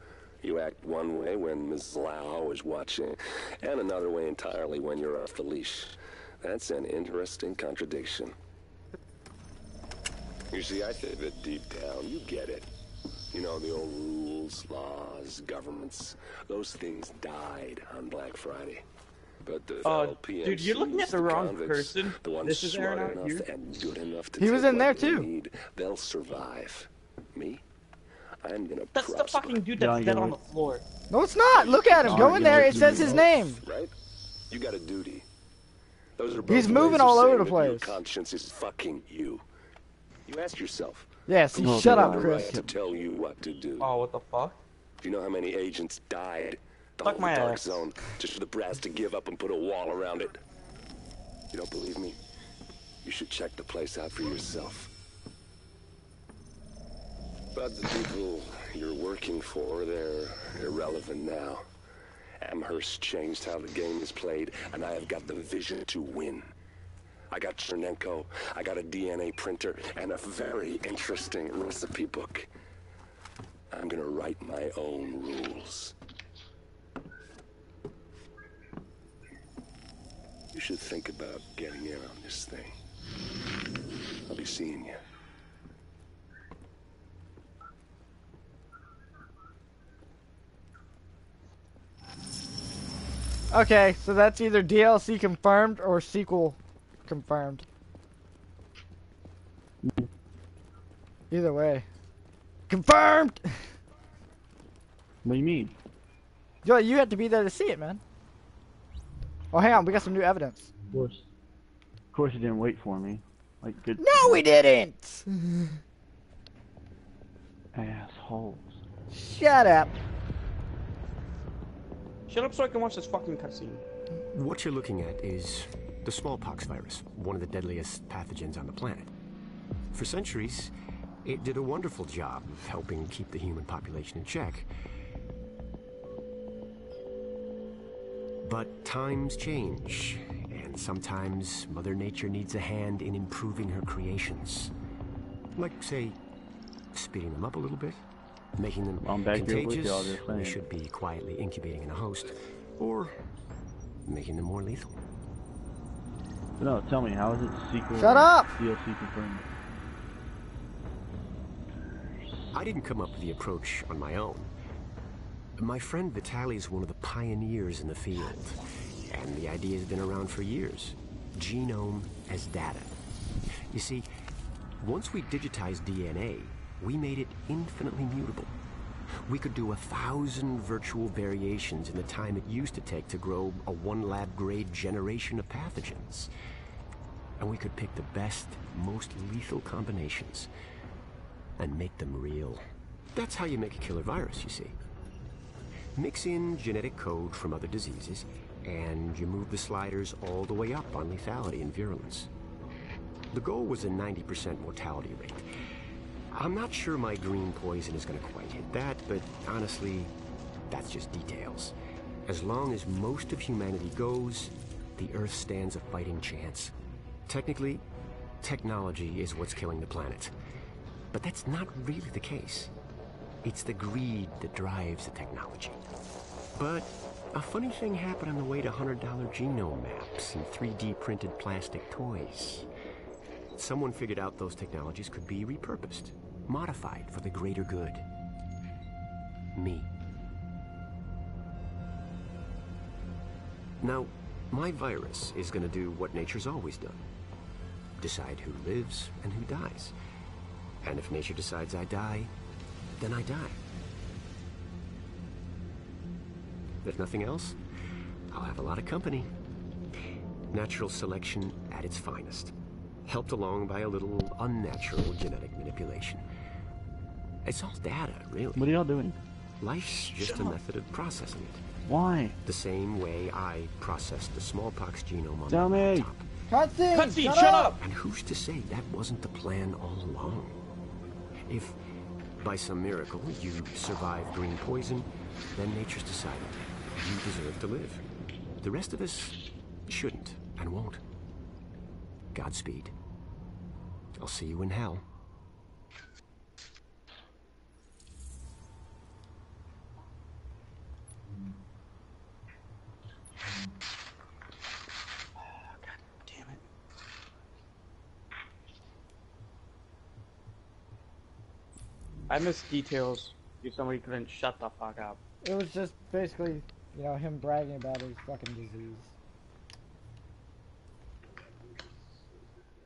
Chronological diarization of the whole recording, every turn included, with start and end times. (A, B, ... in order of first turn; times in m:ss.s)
0:00.4-0:08.3 A
0:10.5-0:12.7 A
0:13.3-0:18.8 A
0:19.4-0:27.6 A
0:19.8-0:23.5 B
0:24.4-0:25.3 C
0:28.4-0:29.7 A
0:28.9-0:30.8 B
0:29.8-0:30.4 D
0:31.1-0:33.6 C
0:31.5-0:33.9 A
0:32.0-0:33.3 D
0:34.5-0:35.3 A
0:36.2-0:39.4 A
0:36.3-0:37.2 D
0:36.5-0:38.0 C
0:40.2-0:43.9 A
0:41.3-0:42.5 C
0:41.6-0:42.7 D
0:43.8-0:44.6 B
0:45.0-0:50.4 A
0:47.0-0:47.9 B
0:51.5-0:52.2 A
0:53.0-0:54.9 A
0:57.5-1:01.6 A
1:02.4-1:06.5 A
1:07.3-1:12.5 A
1:13.7-1:15.9 A
1:20.5-1:22.7 A
1:24.3-1:25.0 A
1:33.5-1:37.6 C
1:39.8-1:40.1 D
1:41.3-1:41.8 C
1:42.7-1:43.6 C
1:45.2-1:45.7 D
1:46.6-1:48.0 C
1:49.5-1:50.7 C
1:50.9-1:51.2 D
1:52.1-1:54.4 D
1:54.0-1:55.7 C
1:57.7-1:58.7 D
1:59.1-1:59.9 C
2:02.3-2:03.8 B
2:04.3-2:09.1 E
2:09.9-2:10.7 E
2:11.2-2:14.7 E
2:18.4-2:24.7 E
2:25.6-2:26.2 E
2:26.9-2:28.0 E
2:28.6-2:33.1 E
2:29.0-2:30.6 D
2:34.0-2:34.9 E
2:36.6-2:39.4 D
2:38.0-2:38.5 C
2:42.5-2:44.5 E
2:45.6-2:52.9 E
2:53.7-2:54.1 E
2:54.8-2:58.5 E
2:59.2-3:06.3 E
3:07.4-3:10.5 E
3:11.6-3:12.6 E
3:13.1-3:14.8 E
3:16.0-3:22.3 E
3:23.3-3:25.4 E
3:26.3-3:30.1 E
3:30.7-3:31.7 E
3:32.2-3:36.7 E
3:37.3-3:37.8 E
3:38.4-3:40.3 E
3:41.1-3:42.7 E
3:43.4-3:45.8 E
3:46.6-3:52.7 E
3:53.6-3:58.0 E
3:59.6-3:59.9 E
4:03.8-4:07.0 E
4:08.0-4:09.9 E
4:10.8-4:12.3 E
4:13.0-4:13.6 E
4:16.8-4:17.6 E
4:18.3-4:19.3 E
4:20.5-4:22.5 E
4:23.0-4:26.2 E
4:27.4-4:28.7 E
4:28.6-4:29.2 D
4:29.6-4:31.6 E
4:29.8-4:30.6 D
4:31.8-4:32.4 D
4:32.4-4:36.2 E
4:35.5-4:36.1 D
4:36.5-4:37.7 C
4:36.9-4:37.8 B
4:37.8-4:40.6 E
4:41.5-4:41.8 E
4:42.4-4:48.0 E
4:48.6-4:51.0 E
4:52.3-4:52.9 E
4:54.2-4:55.0 E
5:05.5-5:06.6 B
5:12.3-5:15.2 B
5:15.4-5:19.1 C